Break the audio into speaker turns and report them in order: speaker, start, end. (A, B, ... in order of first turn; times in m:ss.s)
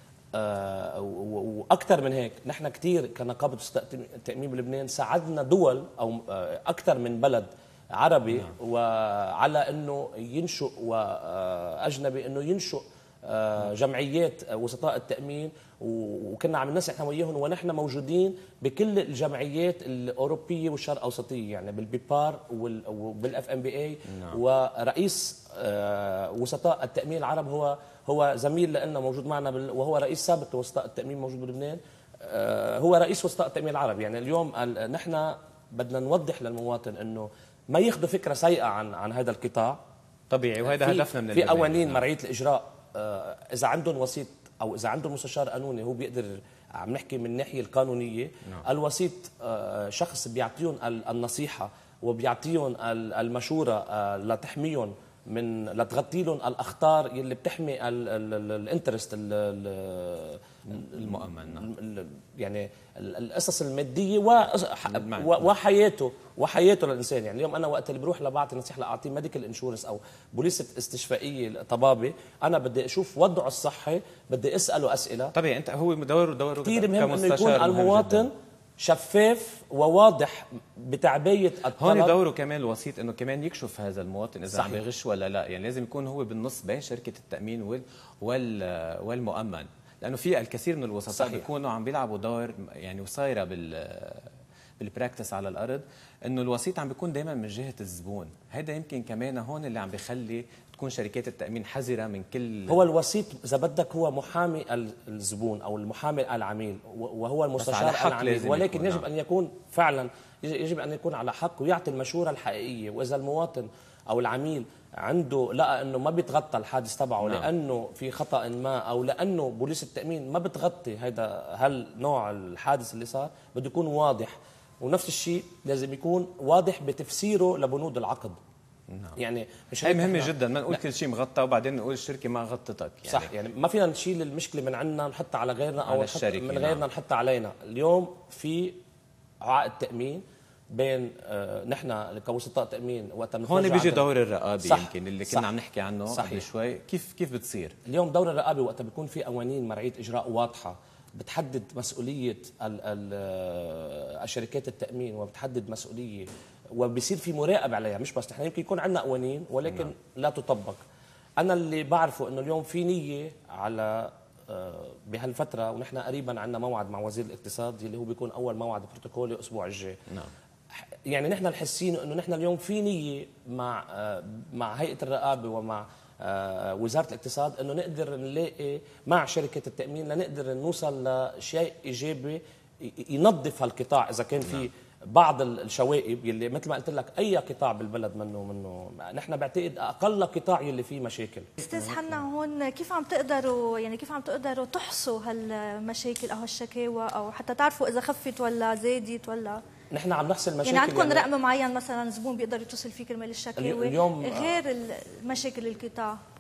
0:00.3-0:39.8 A
0:24.1-0:24.4 B
0:40.3-0:42.0 B
0:40.7-1:15.3 A
1:00.7-1:01.7 B
1:04.9-1:05.5 B
1:15.4-1:18.3 B
1:16.6-1:22.2 A
1:21.8-1:42.8 B
1:24.5-1:24.8 A
1:31.2-1:31.4 A
1:42.7-2:08.4 A
1:47.6-1:49.1 B
1:57.2-1:57.5 B
2:08.9-2:09.2 B
2:09.2-2:10.7 A
2:09.8-2:13.3 B
2:13.1-2:18.8 A
2:15.8-2:16.8 B
2:19.4-2:24.1 A
2:23.5-2:27.8 B
2:24.6-2:25.5 A
2:26.1-2:26.5 A
2:27.8-2:40.8 A
2:41.4-2:50.0 A
2:51.1-3:11.6 A
3:11.6-3:19.6 C
3:19.9-3:21.3 A
3:20.6-3:26.2 C
3:23.6-3:24.6 A